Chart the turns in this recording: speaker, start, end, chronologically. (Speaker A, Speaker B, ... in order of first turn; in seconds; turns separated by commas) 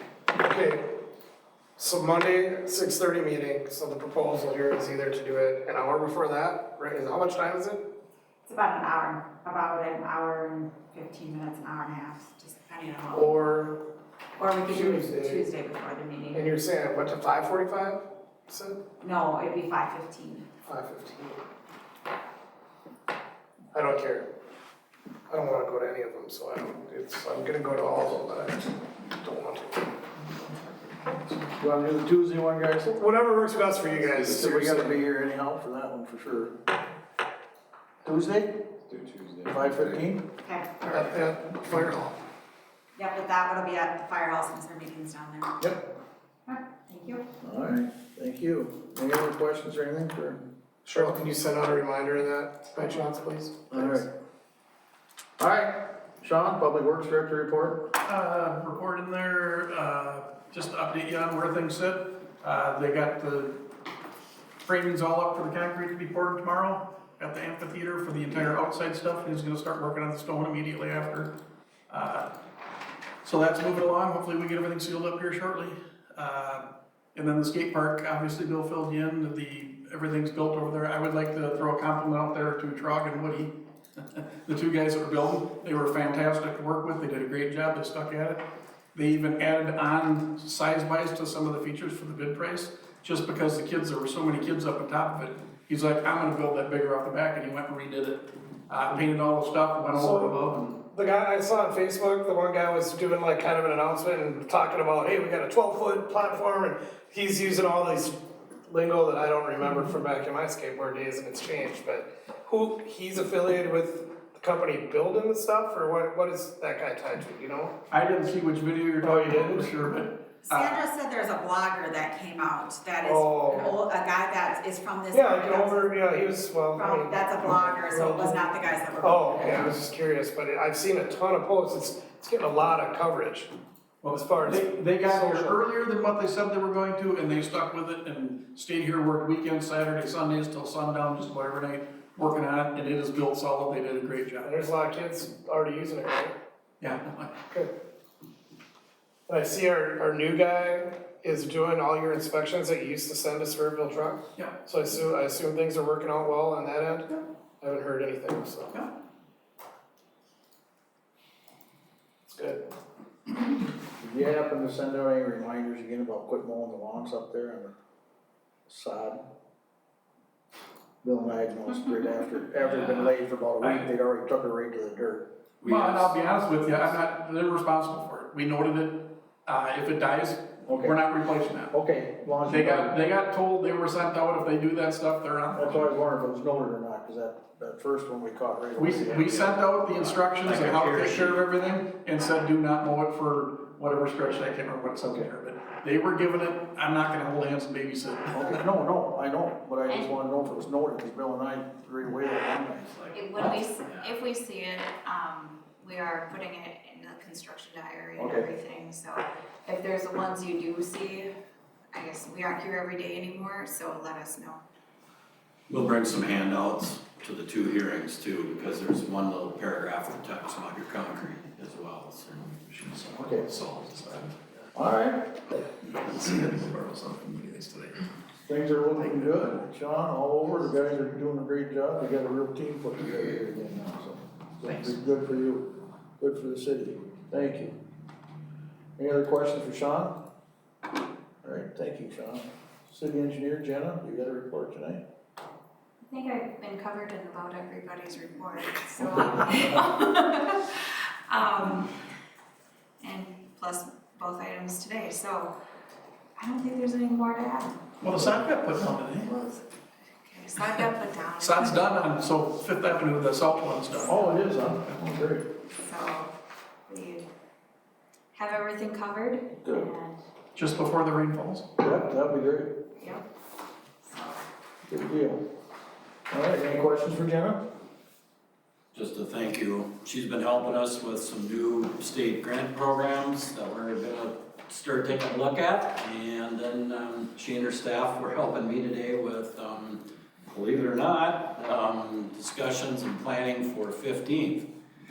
Speaker A: 0.3-1.0, Speaker A: 1.8-7.8, Speaker B: 8.4-13.4, Speaker A: 13.1-13.8, Speaker B: 14.4-16.5, Speaker A: 14.6-15.4, Speaker A: 16.3-18.8, Speaker B: 19.0-20.4, Speaker A: 20.6-21.4, Speaker A: 23.7-24.3, Speaker A: 25.3-29.9, Speaker C: 31.5-33.0, Speaker A: 32.9-35.0, Speaker C: 34.0-36.5, Speaker C: 38.0-38.7, Speaker C: 39.5-40.3, Speaker B: 40.4-41.3, Speaker A: 40.9-42.2, Speaker B: 42.9-45.6, Speaker D: 46.5-47.0, Speaker C: 47.4-50.4, Speaker A: 50.8-54.0, Speaker C: 53.7-54.1, Speaker C: 55.4-57.9, Speaker E: 58.0-63.7, Speaker E: 64.6-71.3, Speaker E: 71.9-72.3, Speaker E: 73.2-88.4, Speaker E: 88.9-100.8, Speaker A: 99.9-117.7, Speaker E: 117.9-120.8, Speaker A: 119.0-119.7, Speaker B: 120.4-125.8, Speaker A: 123.0-123.8, Speaker A: 125.1-128.4, Speaker B: 126.7-129.7, Speaker A: 129.0-133.5, Speaker E: 134.0-144.6, Speaker A: 134.1-135.6, Speaker A: 144.4-146.3, Speaker E: 146.8-147.4, Speaker A: 149.3-157.1, Speaker A: 157.6-158.8, Speaker A: 162.3-162.6, Speaker C: 164.0-167.7, Speaker C: 168.7-169.2, Speaker C: 171.0-175.3, Speaker F: 172.6-173.1, Speaker E: 173.6-173.9, Speaker F: 175.6-176.2, Speaker E: 175.6-181.7, Speaker C: 180.6-181.0, Speaker C: 181.7-183.0, Speaker E: 182.4-185.9, Speaker C: 185.5-189.3, Speaker E: 188.8-198.6, Speaker F: 189.3-191.4, Speaker C: 195.0-195.3, Speaker C: 198.3-202.9, Speaker F: 202.8-204.1, Speaker D: 203.1-211.3, Speaker C: 208.2-208.5, Speaker D: 211.9-214.6, Speaker F: 215.7-222.6, Speaker E: 222.6-224.5, Speaker C: 223.1-223.5, Speaker C: 224.7-225.6, Speaker E: 225.8-228.0, Speaker C: 228.4-237.7, Speaker C: 239.0-240.2, Speaker C: 241.4-245.0, Speaker D: 246.1-252.0, Speaker D: 253.0-255.6, Speaker D: 256.4-257.8, Speaker E: 258.0-259.3, Speaker D: 259.2-259.6, Speaker D: 260.2-262.0, Speaker E: 261.4-264.2, Speaker C: 264.1-265.5, Speaker D: 265.7-266.3, Speaker D: 266.9-267.3, Speaker D: 268.3-270.2, Speaker C: 269.6-269.9, Speaker E: 270.5-271.7, Speaker C: 271.8-272.8, Speaker D: 272.9-273.2, Speaker D: 274.0-274.4, Speaker C: 274.8-275.4, Speaker C: 276.3-277.6, Speaker F: 278.9-290.0, Speaker F: 290.5-294.7